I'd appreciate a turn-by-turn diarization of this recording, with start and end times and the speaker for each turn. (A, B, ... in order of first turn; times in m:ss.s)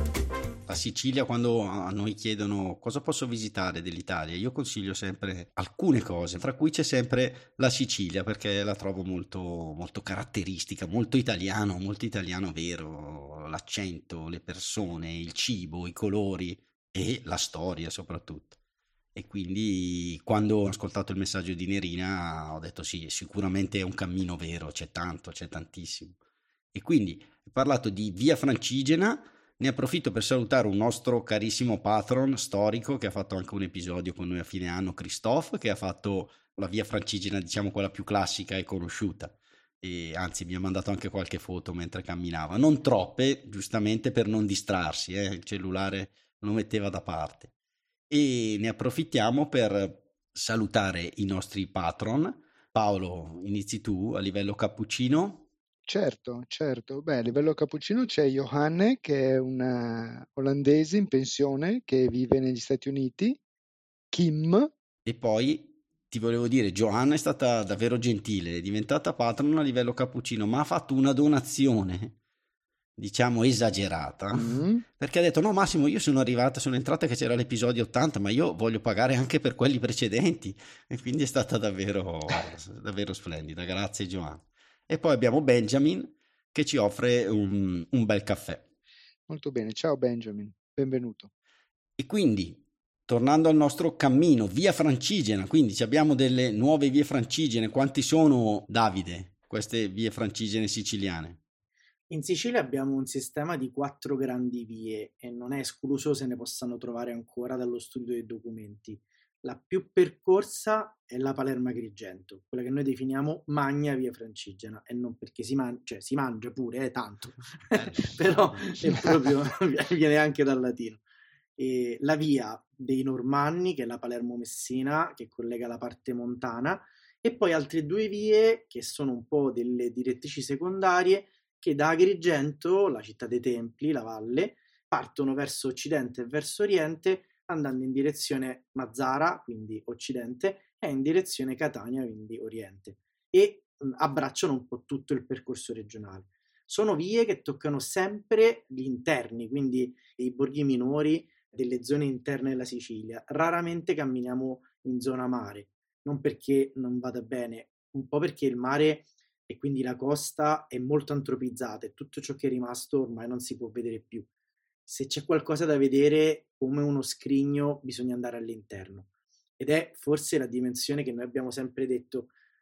0:00.7-0:18.6 A
0:19.2-0:26.2 A
0:26.7-0:47.5 A
0:48.1-0:55.4 A
0:55.9-1:03.4 B
1:04.1-1:04.7 B
1:05.1-1:12.2 A
1:13.0-1:28.6 A
1:14.3-1:14.8 B
1:29.3-1:31.3 B
1:32.0-1:41.4 A
1:42.1-2:01.0 C
1:57.7-1:58.7 A
2:01.6-2:44.3 C
2:44.9-2:49.1 C
2:49.6-2:52.3 C